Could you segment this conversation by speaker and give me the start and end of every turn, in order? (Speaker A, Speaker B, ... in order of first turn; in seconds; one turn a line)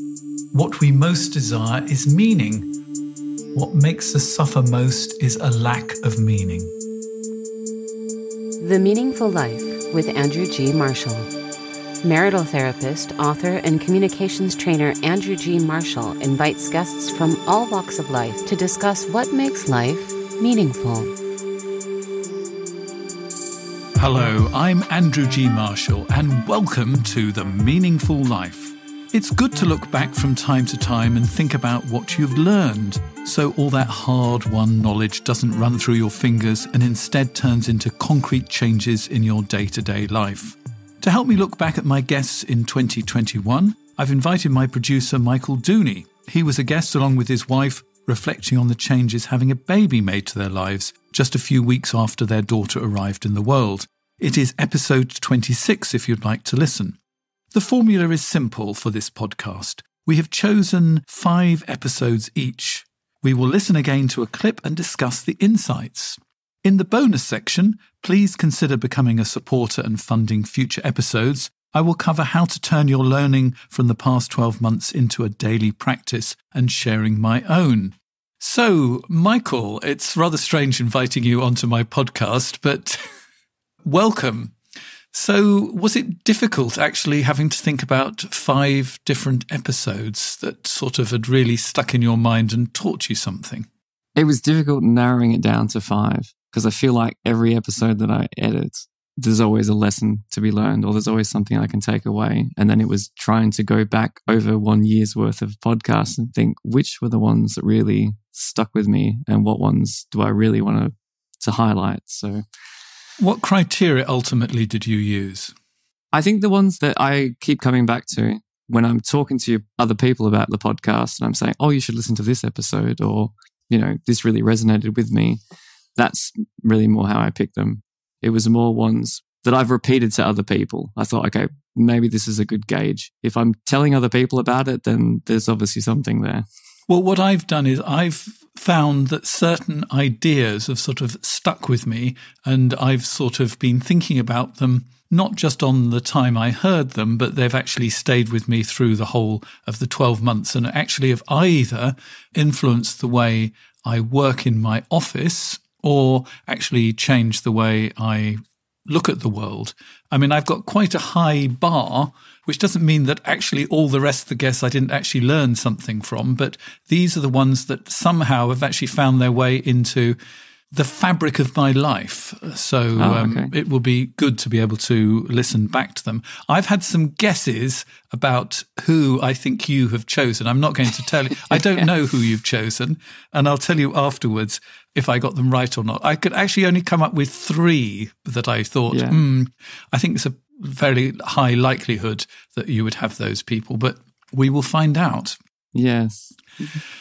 Speaker A: 0.5-2.7
Speaker A: 3.5-6.7
Speaker B: 8.6-11.3
Speaker B: 12.0-21.1
Speaker A: 24.0-57.0
Speaker A: 57.5-83.0
Speaker A: 83.8-84.5
Speaker A: 85.1-93.7
Speaker C: 94.2-112.4
Speaker A: 113.2-115.5
Speaker C: 116.1-125.4
Speaker C: 126.0-136.4
Speaker A: 136.9-170.2
Speaker A: 170.7-195.4
Speaker C: 172.9-173.5
Speaker C: 188.9-189.2
Speaker C: 195.7-196.8